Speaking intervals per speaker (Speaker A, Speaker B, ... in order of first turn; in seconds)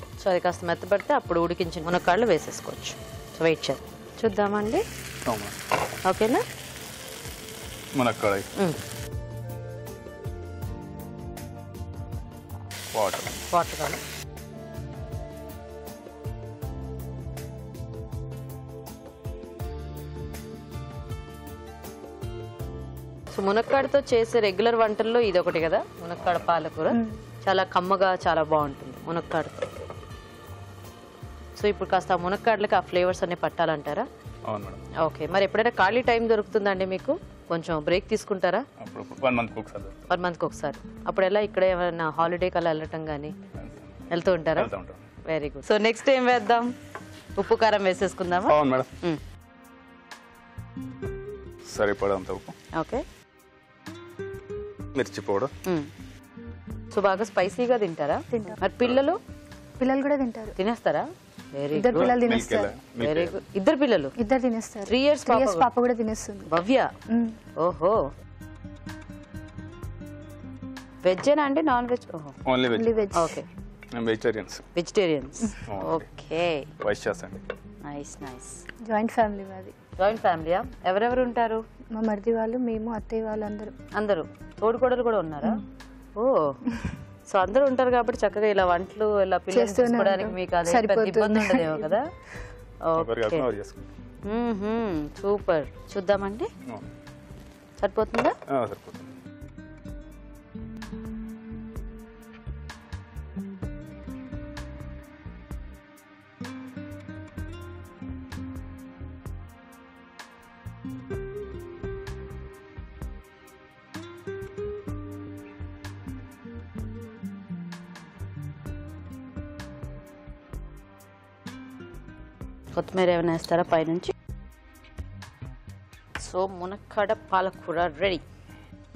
Speaker A: 0.2-4.8, 6.0-6.4, 13.5-14.0, 23.3-29.7, 31.6-34.1, 35.0-38.6, 40.1-43.3, 44.1-44.7, 45.3-46.7, 47.4-49.2, 52.7-53.0, 55.6-55.9, 56.9-59.2, 60.6-62.2, 63.0-64.1, 64.9-65.7, 66.5-66.9, 67.6-68.1, 71.0-72.3, 73.1-73.5, 74.8-76.7, 77.9-78.6, 80.0-81.6, 84.0-85.6, 86.2-86.6, 87.3-92.0, 92.9-93.5, 94.3-96.5, 97.8-98.3, 122.7-124.1, 126.2-128.2
Speaker B: 5.3-5.5, 8.0-8.5, 12.9-13.4, 34.5-34.8, 38.8-40.0, 44.6-45.1, 48.5-48.9, 51.7-52.5, 55.0-55.5, 61.9-63.4, 72.5-73.0, 73.9-74.6, 75.7-76.0, 76.8-77.4, 93.0-93.9, 98.5-99.2
Speaker C: 58.3-58.6, 59.8-60.5, 61.7-62.8, 64.2-66.5, 67.1-67.3, 72.7-73.4, 78.8-79.7, 81.9-83.7, 89.5-92.0